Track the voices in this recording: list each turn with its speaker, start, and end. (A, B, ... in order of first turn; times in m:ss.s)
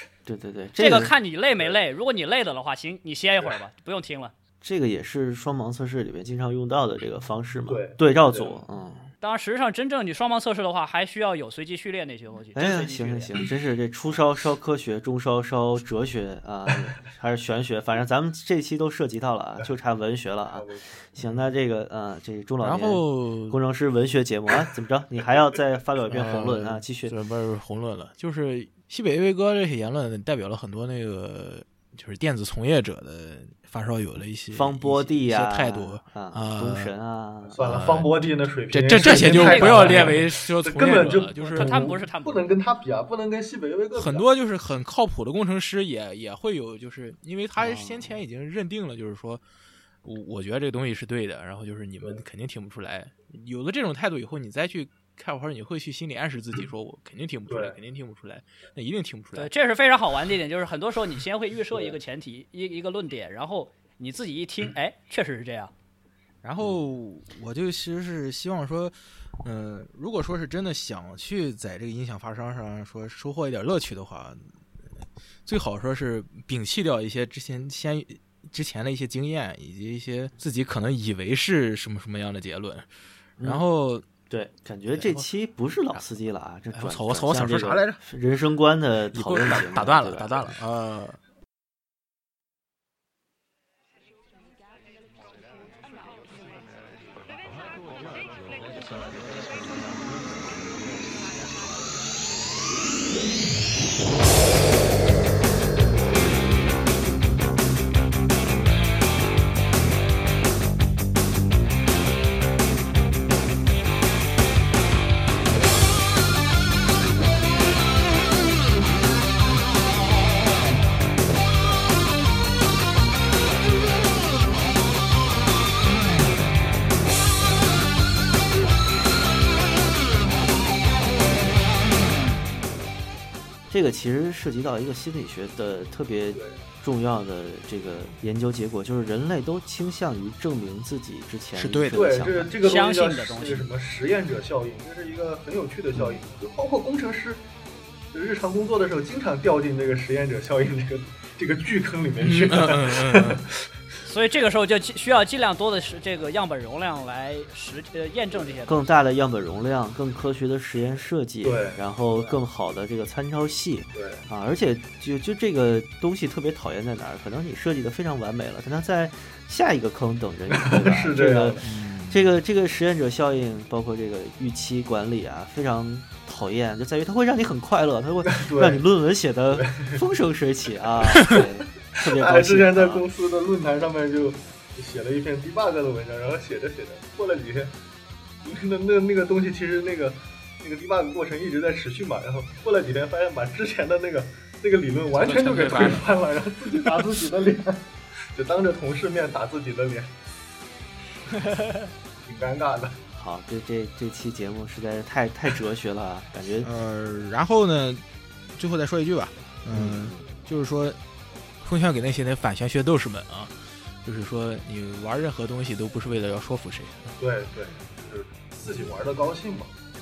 0:00.2-0:01.1 A
0:00.8-0:04.3 B
0:04.6-0:09.1 A
0:07.7-0:08.6 C
0:09.2-0:13.3 B
0:12.5-0:27.1 A
0:20.5-0:20.9 C
0:22.6-0:23.6 D
0:26.1-0:36.9 D
0:34.5-0:37.6 A
0:37.5-0:44.2 C
0:37.6-0:41.9 D
0:39.0-0:40.2 B
0:40.9-0:42.5 B
0:44.0-0:49.4 D
0:47.6-0:48.2 A
0:50.0-0:59.5 D
0:57.5-0:57.8 C
0:59.3-1:05.7 B
1:06.4-1:14.4 D
1:15.4-1:22.9 D
1:23.4-1:24.1 D
1:24.3-1:30.5 A
1:24.9-1:25.2 D
1:26.7-1:28.0 D
1:29.1-1:31.2 D
2:13.7-2:22.6 A
2:16.3-2:16.6 C
2:21.6-2:22.4 D
2:21.9-2:27.4 C
2:22.6-2:23.7 B
2:28.1-2:33.6 C
2:32.2-2:33.4 D
2:34.0-2:38.9 B
2:38.6-3:03.0 A
2:41.4-2:41.8 C
2:43.9-2:44.2 C
2:50.5-2:51.6 C
2:51.6-2:52.3 D
2:58.3-2:58.8 C
2:59.5-3:00.0 C
3:02.0-3:07.8 C
3:08.4-3:20.1 C
3:15.1-3:16.1 D
3:22.2-3:23.0 C
3:23.1-3:26.7 A
3:26.6-3:28.0 D
3:28.6-3:31.0 D
3:29.7-3:30.2 A
3:31.6-3:37.1 D
3:37.2-3:39.7 C